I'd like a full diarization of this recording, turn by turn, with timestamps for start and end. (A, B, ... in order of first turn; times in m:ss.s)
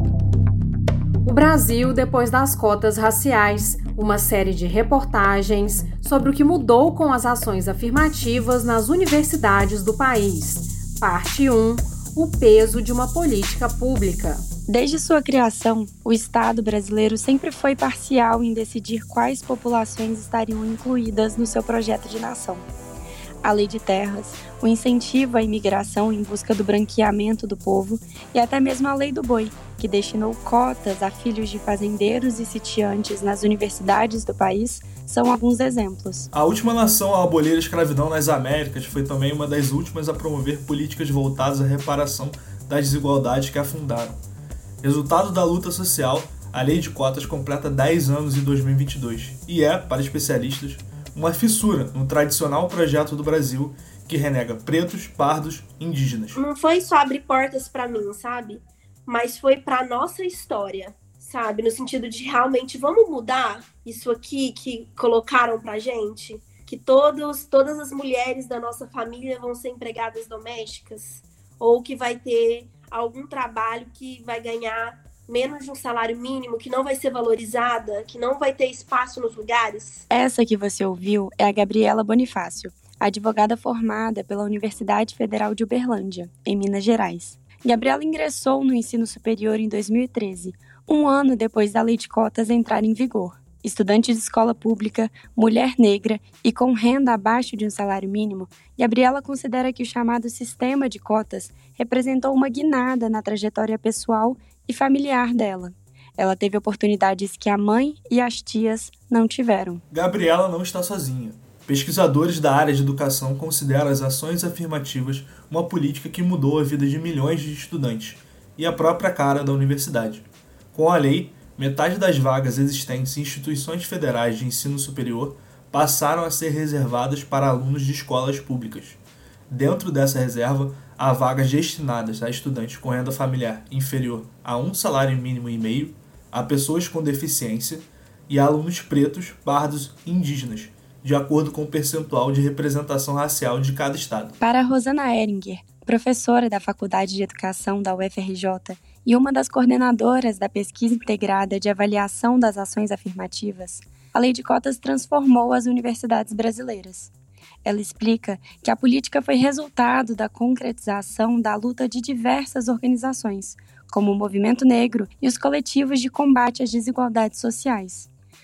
0:01.2-0:14.4 A
0:14.7-0:22.6 B
0:23.4-0:36.3 B
0:36.3-0:44.2 C
0:44.8-0:56.4 C
0:56.4-1:20.0 D
1:20.1-1:49.8 B
1:49.9-2:24.4 C
2:24.4-2:37.1 B
2:37.6-2:48.1 B